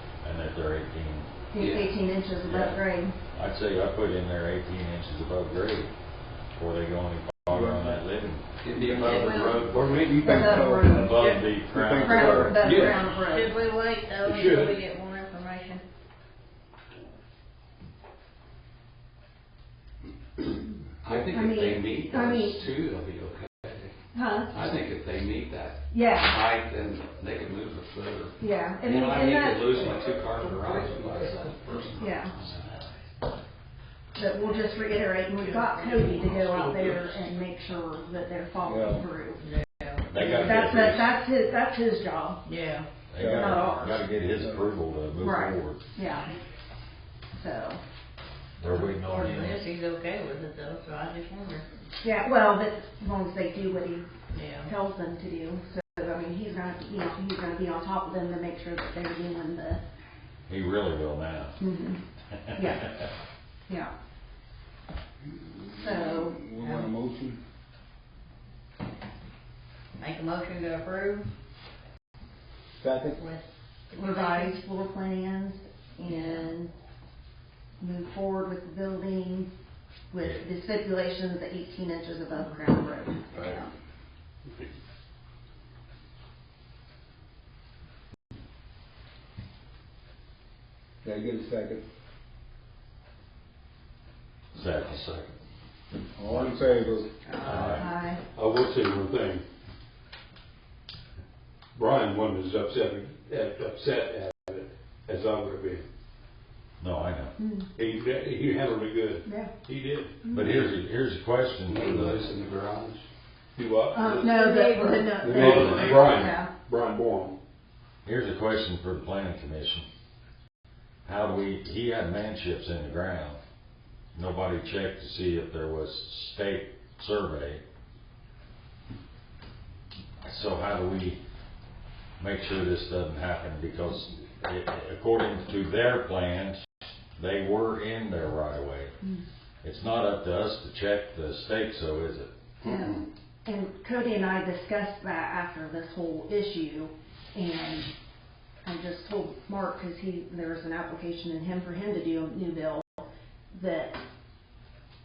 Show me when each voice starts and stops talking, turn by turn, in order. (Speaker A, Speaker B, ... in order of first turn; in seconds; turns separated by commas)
Speaker A: 0.2-1.3, Speaker B: 1.5-3.1, Speaker C: 1.6-1.9, Speaker A: 2.4-2.8, Speaker A: 3.3-5.9, Speaker A: 6.5-8.5, Speaker D: 7.5-8.0, Speaker C: 8.6-10.4, Speaker E: 8.9-9.8, Speaker B: 9.1-11.3, Speaker D: 9.7-12.7, Speaker A: 10.2-12.9, Speaker E: 11.2-11.4, Speaker B: 12.0-13.5, Speaker E: 12.2-15.8, Speaker F: 12.6-13.0, Speaker F: 14.2-14.8, Speaker C: 21.0-23.9, Speaker B: 21.1-22.6, Speaker B: 24.1-24.5, Speaker C: 24.5-32.6, Speaker B: 25.9-26.4, Speaker B: 28.4-29.9, Speaker B: 31.9-32.3, Speaker E: 32.3-32.9, Speaker B: 34.1-39.4, Speaker E: 34.4-37.1, Speaker D: 38.6-39.0, Speaker E: 39.4-40.4, Speaker A: 40.0-41.1, Speaker B: 40.2-42.4, Speaker E: 42.4-42.9, Speaker A: 43.1-45.8, Speaker D: 43.2-43.6, Speaker B: 43.2-44.0, Speaker D: 44.4-44.6, Speaker B: 45.2-46.3, Speaker B: 47.4-47.8, Speaker A: 48.6-49.6, Speaker E: 49.0-51.6, Speaker B: 52.0-54.1, Speaker E: 54.3-54.7, Speaker B: 54.6-59.8, Speaker A: 60.5-61.6, Speaker B: 61.6-62.0, Speaker A: 62.3-63.1, Speaker B: 62.5-62.9, Speaker D: 65.6-67.4, Speaker B: 65.8-66.4, Speaker E: 66.6-66.9, Speaker E: 70.0-71.2, Speaker D: 72.8-73.2, Speaker E: 73.2-74.6, Speaker B: 74.0-76.7, Speaker E: 76.0-76.5, Speaker B: 77.8-79.5, Speaker B: 80.1-83.7, Speaker D: 83.3-83.6, Speaker D: 91.0-91.8, Speaker A: 94.5-95.3, Speaker D: 96.1-97.1, Speaker A: 96.2-97.9, Speaker B: 97.3-98.2, Speaker F: 98.3-99.4, Speaker F: 101.8-105.8, Speaker A: 106.8-107.4, Speaker B: 107.4-107.7, Speaker F: 107.8-110.7, Speaker B: 109.2-109.5, Speaker A: 110.3-112.3, Speaker C: 111.7-113.0, Speaker F: 113.5-117.4, Speaker B: 113.9-116.5, Speaker A: 115.5-115.9, Speaker D: 115.8-116.2, Speaker A: 118.0-119.9, Speaker A: 121.0-123.4, Speaker A: 124.1-127.6, Speaker A: 130.2-131.2, Speaker A: 132.2-136.6, Speaker A: 137.2-138.9, Speaker A: 139.6-142.3, Speaker B: 142.6-147.9, Speaker B: 148.6-154.0